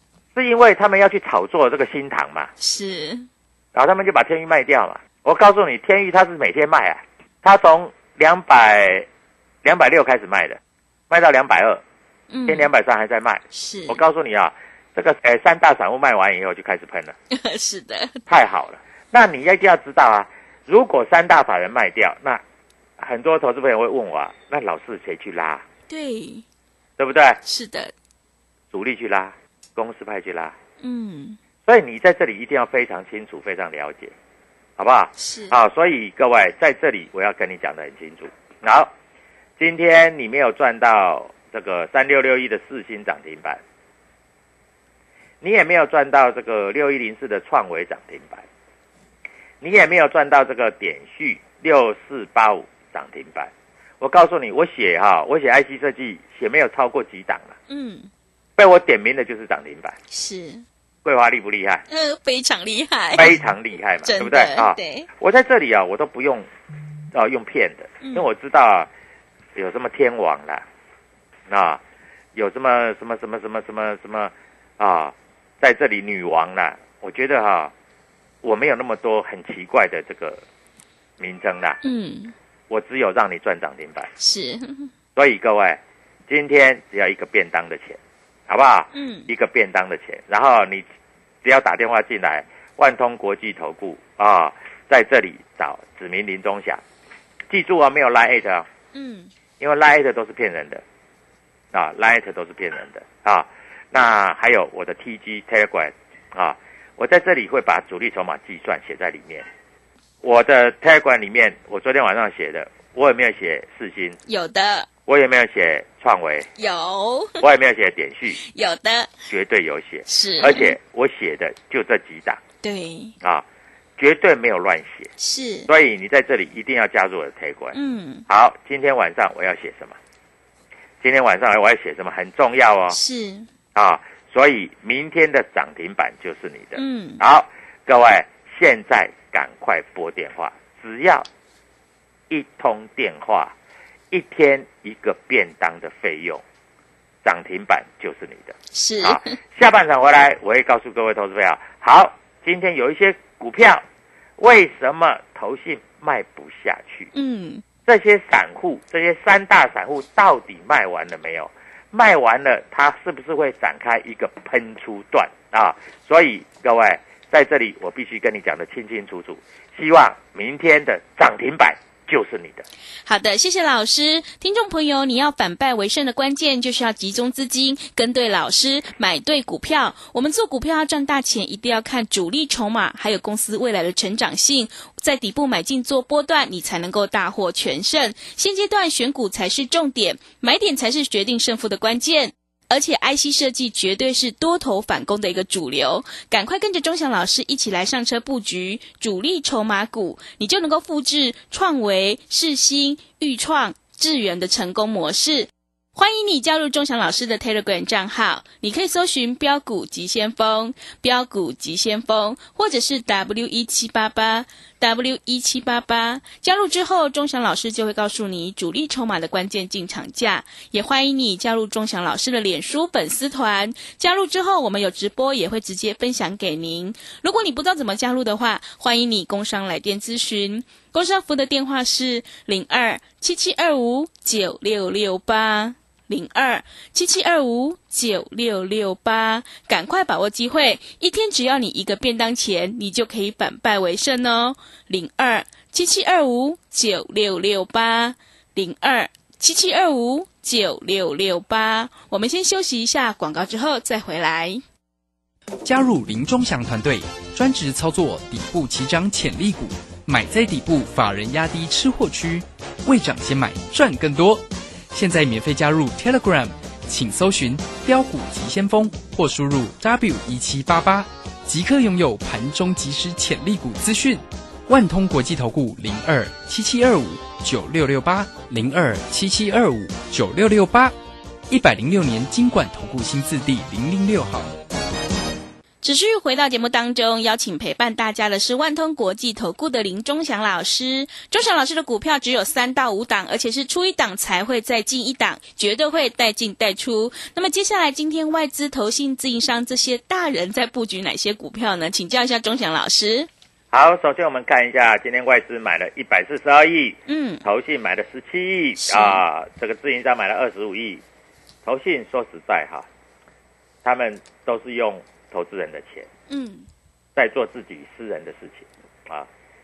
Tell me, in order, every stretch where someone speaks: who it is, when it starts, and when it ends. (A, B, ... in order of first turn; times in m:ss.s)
0:00.4-0:02.5 A
0:02.6-0:03.3 B
0:03.7-0:09.1 A
0:09.6-0:10.6 A
0:11.1-0:11.8 A
0:12.3-0:12.7 B
0:12.5-0:17.2 A
0:13.5-0:14.0 B
0:17.3-0:18.2 B
0:18.3-0:22.4 A
0:23.0-0:25.6 A
0:25.9-0:26.4 B
0:27.0-0:27.4 A
0:27.4-0:27.9 B
0:28.7-0:30.6 A
0:30.8-0:31.4 B
0:31.7-0:34.1 A
0:34.8-0:38.9 A
0:35.2-0:35.6 B
0:39.6-0:43.6 A
0:45.4-0:48.4 A
0:49.6-0:57.6 A
0:57.7-0:58.1 B
0:58.6-1:00.0 A
1:00.1-1:00.6 B
1:01.0-1:01.8 A
1:01.9-1:03.4 B
1:03.2-1:06.5 A
1:04.0-1:05.1 B
1:07.1-1:08.9 A
1:09.6-1:10.6 A
1:11.5-1:11.8 A
1:12.4-1:17.7 A
1:18.4-1:20.4 A
1:21.2-1:21.8 A
1:21.8-1:22.3 B
1:22.7-1:24.1 A
1:24.2-1:24.9 B
1:25.2-1:30.8 A
1:28.9-1:29.3 B
1:31.4-1:36.8 A
1:37.5-1:38.7 A
1:38.9-1:39.3 B
1:39.6-1:40.8 A
1:41.7-1:49.5 A
1:50.2-1:54.2 A
1:54.3-1:54.9 B
1:55.1-1:56.5 A
1:56.6-1:57.4 B
1:57.4-1:58.4 A
1:58.4-1:59.1 B
1:59.3-2:02.4 A
2:00.1-2:00.8 B
2:02.6-2:03.1 B
2:04.0-2:05.1 A
2:05.2-2:05.7 B
2:05.7-2:07.8 A
2:07.7-2:08.3 B
2:08.3-2:10.0 A
2:11.0-2:13.0 A
2:12.9-2:13.5 B
2:13.8-2:21.3 A
2:16.8-2:17.2 B
2:22.3-2:23.5 A
2:24.1-2:26.4 A
2:27.2-2:33.8 A
2:28.7-2:29.4 B
2:34.4-2:37.1 A
2:37.1-2:37.6 B
2:37.9-2:52.6 A
2:53.1-4:14.6 B
4:15.6-4:40.9 C
4:41.5-4:44.5 C
4:45.8-5:03.3 B
5:03.7-5:11.0 A
5:07.1-5:07.4 B
5:08.8-5:09.2 B
5:11.6-5:12.9 A
5:13.8-5:16.1 A
5:16.3-5:16.7 B
5:17.2-5:19.3 A